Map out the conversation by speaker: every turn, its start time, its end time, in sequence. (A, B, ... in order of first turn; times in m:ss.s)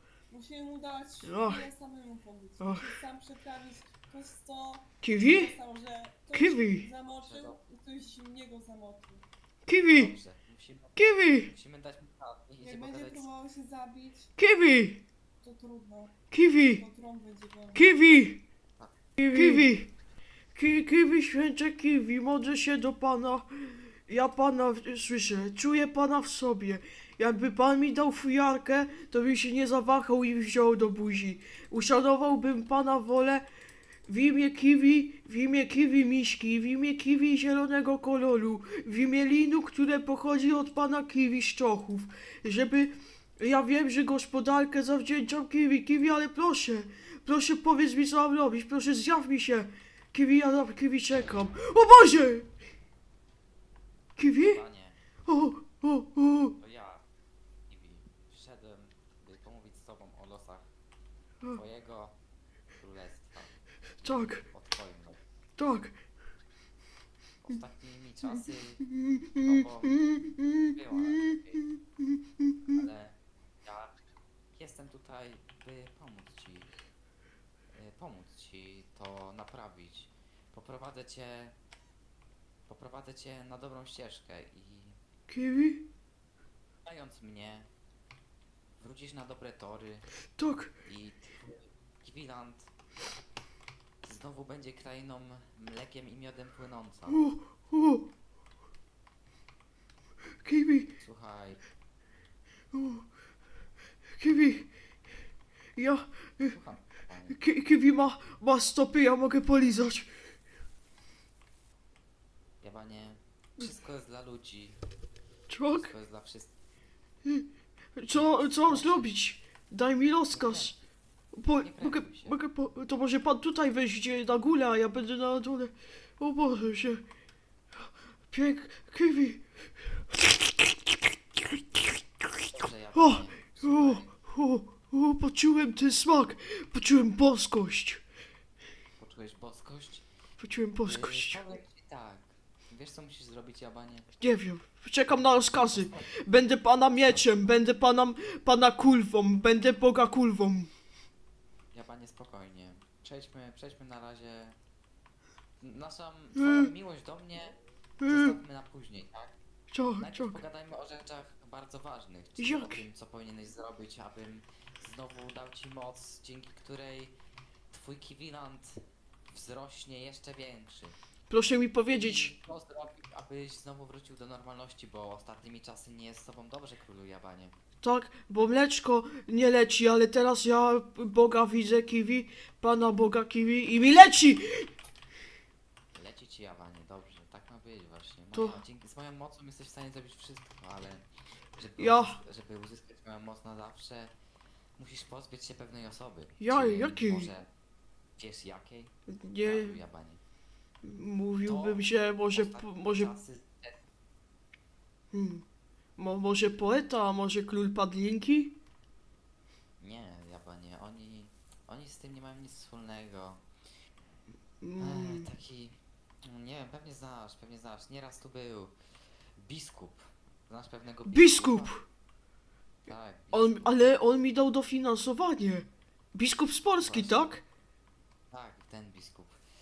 0:00.3-0:09.2 A
0:01.2-0:01.6 B
0:02.6-0:02.9 B
0:05.0-0:05.5 B
0:06.3-0:06.9 B
0:07.2-0:07.6 C
0:09.7-0:10.1 B
0:10.0-0:13.3 C
0:11.0-0:11.5 B
0:12.6-0:14.3 A
0:14.4-0:15.0 B
0:15.4-0:17.9 A
0:16.3-0:16.8 B
0:17.8-0:18.4 B
0:18.8-0:19.6 C
0:19.2-0:19.9 B
0:20.6-0:33.5 B
0:34.1-0:52.5 B
0:54.2-0:54.6 B
0:54.4-0:55.0 C
0:55.3-0:56.5 B
0:56.6-0:57.0 C
0:57.7-1:00.7 C
1:01.5-1:02.2 C
1:02.7-1:05.2 C
1:04.0-1:04.4 B
1:05.6-1:05.9 B
1:07.4-1:08.8 C
1:08.8-1:11.7 B
1:09.4-1:11.6 C
1:12.7-1:13.9 C
1:14.6-1:16.7 C
1:17.7-1:21.6 C
1:22.7-1:25.0 C
1:25.3-1:25.9 B
1:26.8-1:27.7 C
1:28.8-1:30.1 C
1:30.4-1:30.7 B
1:30.8-1:32.7 C
1:34.0-1:37.2 C
1:37.1-1:38.1 B
1:40.4-1:40.9 B
1:41.0-1:41.6 C
1:42.7-1:43.0 B
1:44.2-1:44.7 B
1:45.8-1:46.6 B
1:46.5-1:47.4 C
1:47.3-1:50.1 B
1:52.6-1:54.8 C
1:55.5-1:55.9 B
1:55.7-1:56.5 C
1:58.0-2:00.8 B
1:58.1-1:59.1 C
2:00.3-2:00.8 C
2:01.4-2:07.0 B
2:01.5-2:02.4 C
2:08.3-2:09.4 B
2:10.1-2:10.7 B
2:12.5-2:14.1 C
2:12.9-2:18.0 B
2:19.0-2:20.0 C
2:20.4-2:21.4 B
2:20.8-2:24.1 C
2:24.2-2:30.7 B
2:25.3-2:26.1 C
2:26.9-2:27.6 C
2:31.7-2:34.6 C
2:35.6-2:39.3 C
2:36.4-2:36.7 B
2:38.0-2:38.4 B
2:39.7-2:40.4 B
2:40.0-2:47.1 C
2:42.4-2:42.8 B
2:47.7-2:51.0 C
2:51.3-2:52.4 B
2:51.9-2:57.6 C
2:57.8-3:04.7 B
3:05.9-3:11.0 C
3:11.6-3:14.1 C
3:11.8-3:12.2 B
3:14.8-3:17.5 C
3:16.4-3:17.3 B
3:18.2-3:20.2 C
3:19.1-3:19.8 B
3:20.8-3:23.1 B
3:21.4-3:23.8 C
3:25.1-3:25.4 B
3:26.0-3:28.6 B
3:29.8-3:33.4 C
3:34.6-3:35.3 B
3:34.8-3:38.8 C
3:39.4-3:41.8 C
3:41.1-3:41.8 B
3:42.9-3:43.9 C
3:43.3-3:47.4 B
3:46.8-3:47.4 C
3:48.3-3:49.4 C